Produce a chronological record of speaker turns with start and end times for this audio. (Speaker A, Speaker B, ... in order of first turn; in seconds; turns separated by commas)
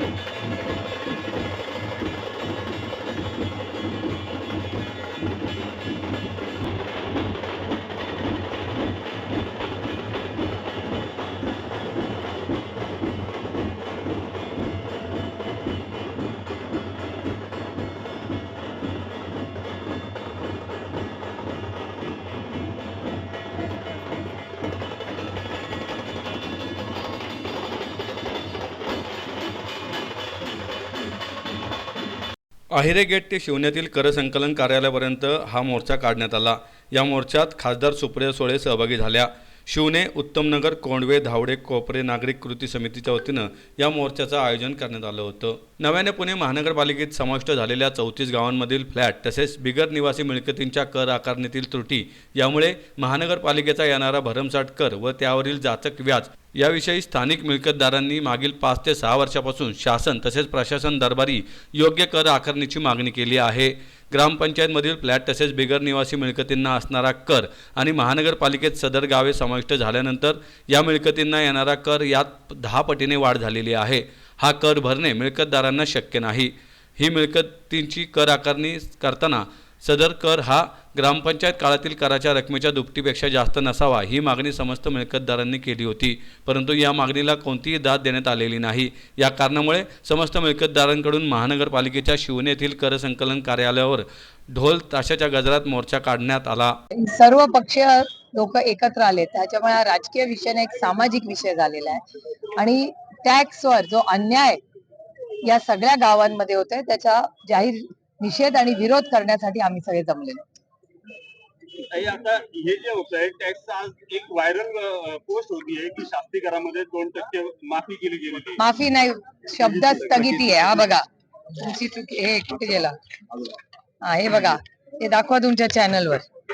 Speaker A: 32.7-96.7, Speaker B: 97.0-102.0, Speaker B: 102.6-104.6, Speaker B: 105.4-110.4, Speaker C: 111.8-118.6, Speaker B: 118.6-122.9, Speaker C: 119.6-120.3, Speaker B: 124.0-126.3